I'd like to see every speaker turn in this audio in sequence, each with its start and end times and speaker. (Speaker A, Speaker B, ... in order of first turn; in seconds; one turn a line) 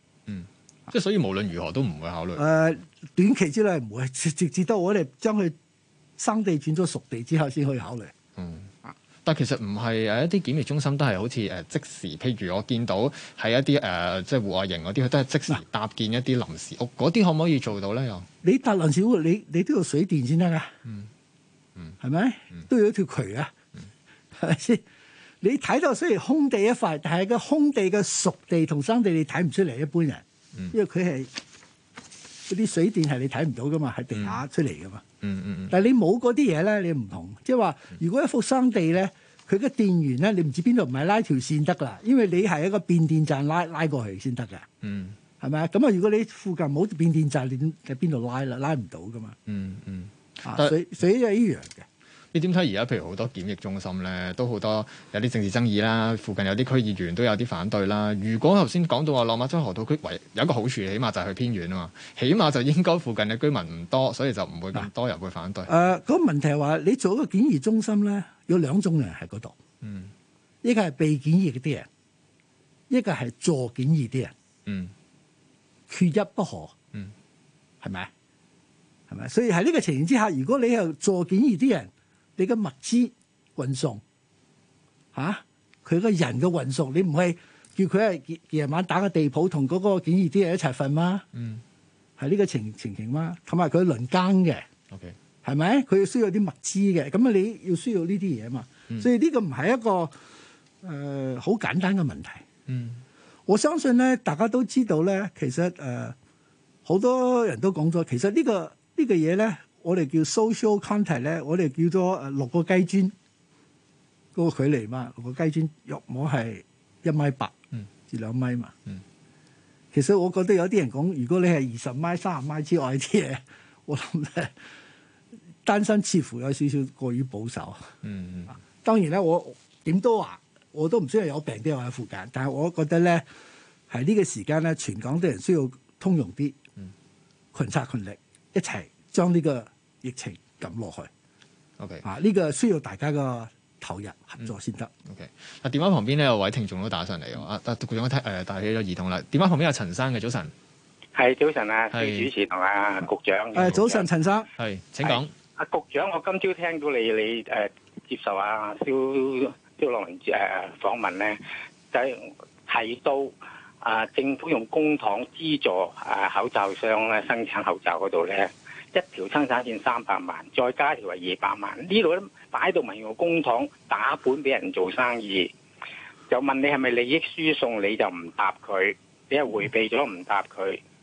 Speaker A: 0.3-2.7
Speaker B: 2.4-5.5
Speaker B: 6.2-8.1
Speaker A: 8.4-8.7
Speaker A: 9.2-18.3
Speaker B: 18.4-20.7
Speaker B: 22.0-23.5
Speaker B: 24.4-24.8
Speaker B: 25.4-31.3
Speaker B: 32.5-35.0
Speaker A: 34.1-34.4
Speaker A: 35.2-35.7
Speaker B: 35.7-44.7
Speaker A: 44.8-45.2
Speaker B: 45.4-49.4
Speaker A: 49.5-50.7
Speaker B: 50.4-51.9
Speaker A: 52.3-65.8
Speaker B: 65.7-69.6
Speaker A: 69.8-70.1
Speaker B: 70.6-71.9
Speaker B: 72.9-74.3
Speaker A: 74.7-74.9
Speaker B: 75.9-76.7
Speaker B: 77.8-78.1
Speaker B: 79.1-84.0
Speaker B: 85.1-91.2
Speaker A: 91.3-91.6
Speaker B: 92.2-94.7
Speaker A: 94.9-95.2
Speaker B: 95.4-100.1
Speaker B: 100.8-102.4
Speaker A: 102.7-103.0
Speaker B: 103.5-106.2
Speaker B: 106.8-113.1
Speaker B: 114.3-117.5
Speaker B: 118.1-118.7
Speaker B: 119.9-124.5
Speaker B: 125.6-127.9
Speaker A: 128.0-128.5
Speaker B: 128.8-133.2
Speaker B: 133.9-136.6
Speaker B: 137.5-141.1
Speaker A: 141.8-142.0
Speaker B: 142.0-144.9
Speaker A: 145.1-150.5
Speaker C: 151.1-154.0
Speaker A: 151.9-152.3
Speaker B: 153.6-154.5
Speaker A: 154.6-155.3
Speaker C: 155.1-161.4
Speaker C: 161.9-175.5
Speaker C: 176.3-180.8